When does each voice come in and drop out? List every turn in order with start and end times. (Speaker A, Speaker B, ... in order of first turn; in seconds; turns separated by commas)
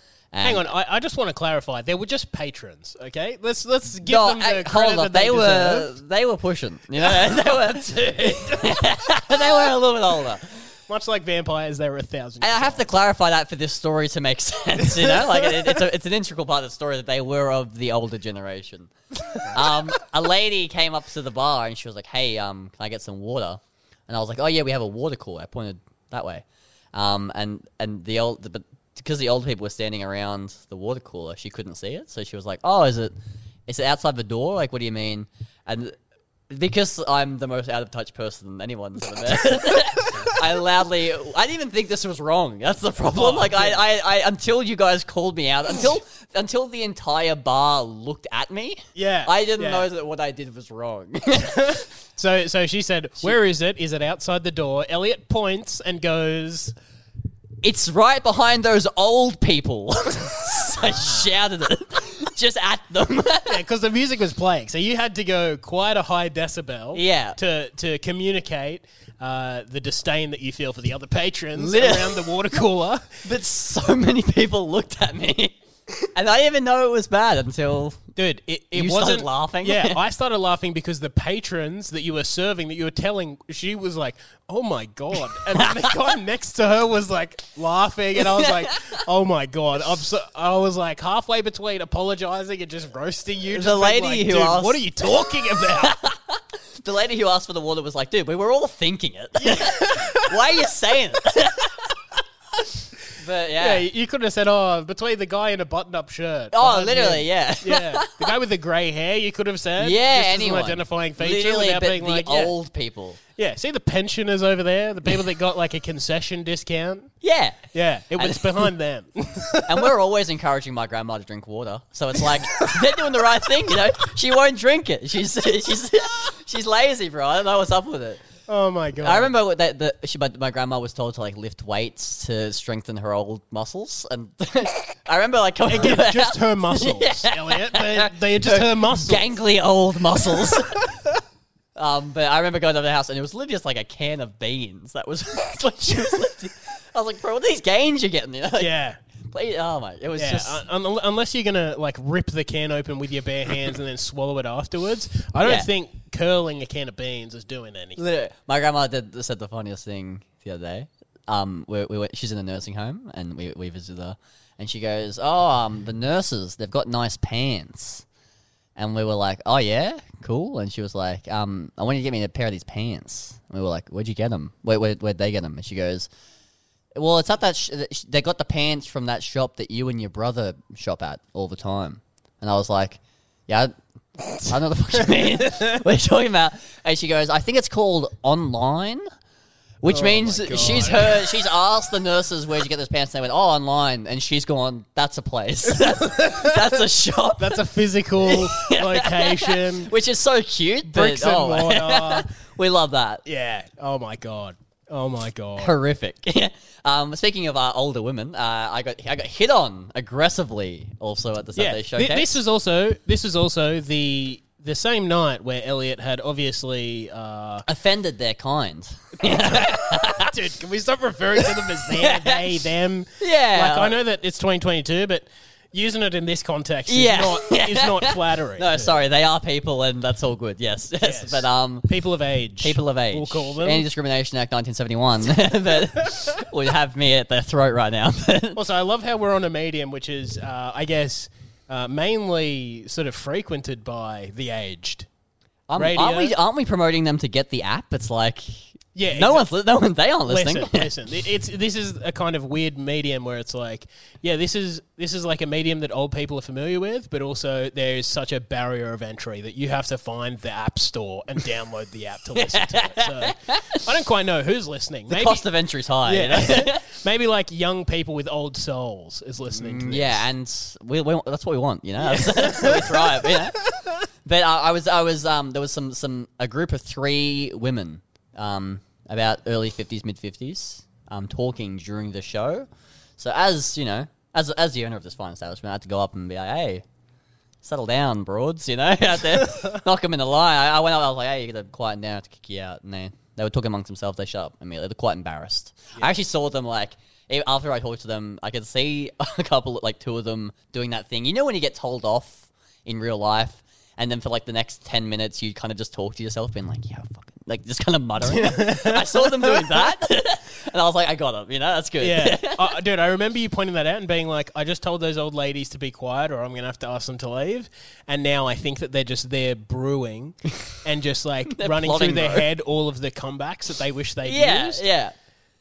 Speaker A: 0.3-0.6, Speaker B: 0.4-5.9, Speaker A: 4.0-10.5, Speaker B: 7.0-7.8, Speaker B: 10.9-12.9, Speaker A: 12.4-18.9, Speaker B: 14.8-15.8, Speaker A: 19.4-33.1, Speaker A: 33.7-36.0, Speaker A: 36.5-51.6, Speaker B: 43.1-43.8, Speaker B: 49.0-49.9, Speaker B: 51.4-56.8, Speaker A: 57.6-63.6, Speaker B: 60.8-61.3, Speaker B: 63.5-73.1, Speaker A: 66.9-67.4, Speaker A: 71.5-72.3, Speaker A: 73.2-78.0, Speaker B: 78.2-96.0, Speaker A: 78.8-80.0, Speaker A: 88.4-89.0, Speaker A: 93.5-101.8, Speaker B: 99.4-100.3, Speaker A: 103.2-103.8, Speaker B: 103.6-112.5, Speaker A: 106.5-108.2, Speaker A: 109.8-113.2, Speaker B: 113.4-117.1, Speaker A: 117.2-118.7, Speaker B: 117.7-119.9, Speaker A: 119.7-128.2, Speaker B: 128.5-129.3, Speaker A: 129.0-140.9, Speaker B: 135.7-139.2, Speaker B: 140.3-140.8, Speaker A: 141.8-148.7, Speaker B: 148.6-149.0, Speaker A: 149.3-150.6, Speaker B: 150.2-158.0, Speaker A: 155.4-155.7, Speaker A: 158.0-168.1, Speaker A: 168.8-176.1, Speaker A: 176.9-183.7, Speaker A: 184.4-189.1, Speaker A: 189.8-197.6, Speaker B: 189.8-191.3, Speaker B: 195.9-196.6, Speaker B: 197.4-199.9, Speaker A: 198.2-203.2, Speaker B: 200.8-202.3, Speaker B: 203.2-205.8, Speaker A: 205.6-212.4, Speaker B: 211.6-217.7, Speaker A: 217.7-220.3, Speaker B: 219.2-229.0, Speaker A: 221.9-222.4, Speaker A: 223.2-223.9, Speaker A: 226.9-231.9, Speaker B: 231.0-233.9, Speaker A: 232.6-238.6, Speaker B: 238.6-245.1, Speaker A: 245.7-250.9, Speaker B: 245.8-246.3, Speaker B: 248.9-249.5, Speaker B: 250.3-265.5, Speaker A: 262.4-263.8, Speaker A: 265.1-266.8, Speaker B: 266.0-270.2, Speaker A: 269.5-273.6, Speaker B: 272.0-273.9, Speaker A: 274.2-282.7, Speaker A: 283.2-286.8, Speaker A: 287.6-312.6, Speaker B: 308.2-309.8, Speaker B: 312.0-324.8, Speaker A: 321.5-322.5, Speaker A: 324.2-325.1